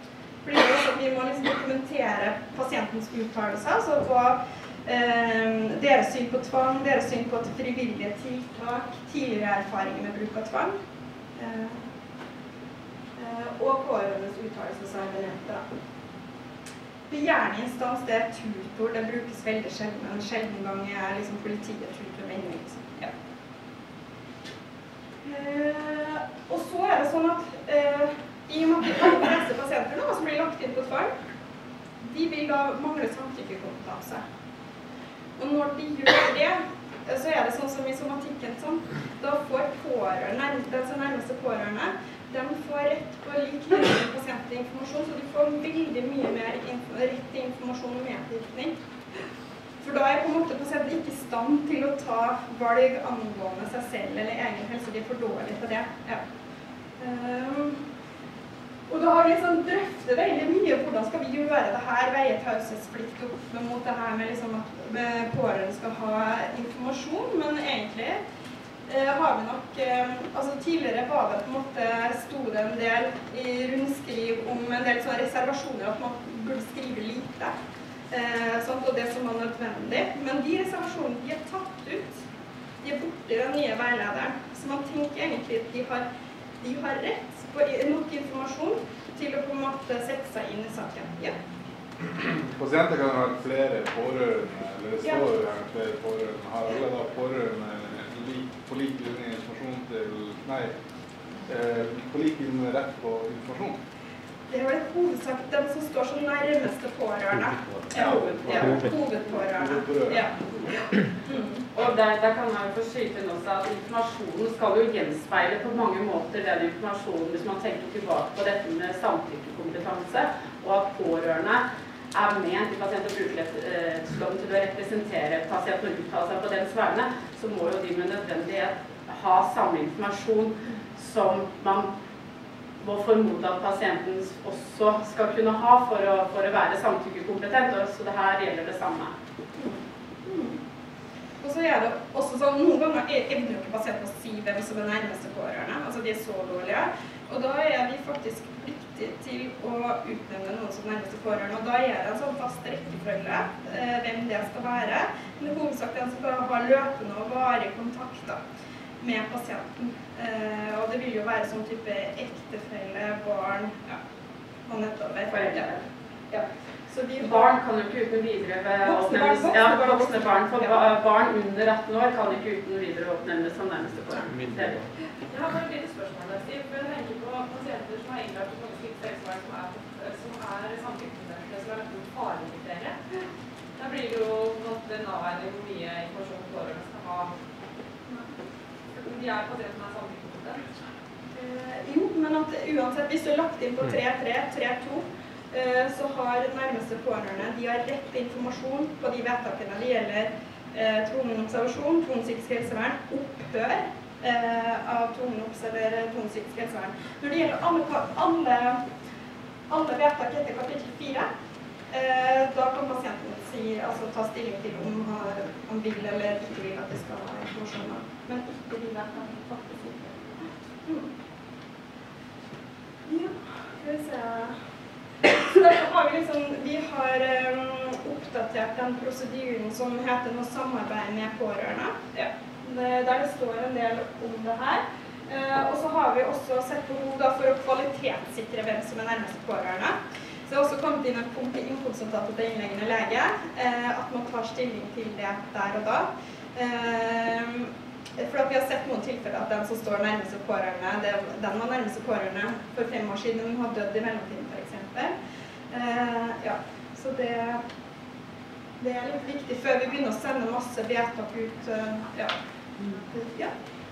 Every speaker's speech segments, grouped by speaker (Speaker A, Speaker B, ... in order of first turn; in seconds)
Speaker A: 0.4-10.7, 11.4-11.8, 13.2-15.6, 17.1-23.1, 25.2-31.1, 32.0-34.2, 35.4-48.7, 49.8-56.2, 57.0-57.8, 58.9-68.2, 68.9-77.5, 78.1-82.2, 82.8-86.0, 86.6-91.3, 104.5-111.6, 139.6-140.6, 141.4-158.4, 159.0-164.0, 164.7-165.7, 166.3-167.5, 168.8-170.8, 191.3-208.8, 209.7-211.3, 211.9-221.1, 223.1-224.5, 225.2-239.9, 240.5-255.1, 255.7-257.6, 258.8-262.3, 263.1-263.5
Speaker B: 92.2-100.7, 101.4-103.8, 108.0-108.9, 109.4-110.3
Speaker C: 111.7-131.9, 132.8-139.1, 165.3-165.8, 167.2-174.8
Speaker D: 175.3-183.0, 183.8-187.3, 189.0-190.7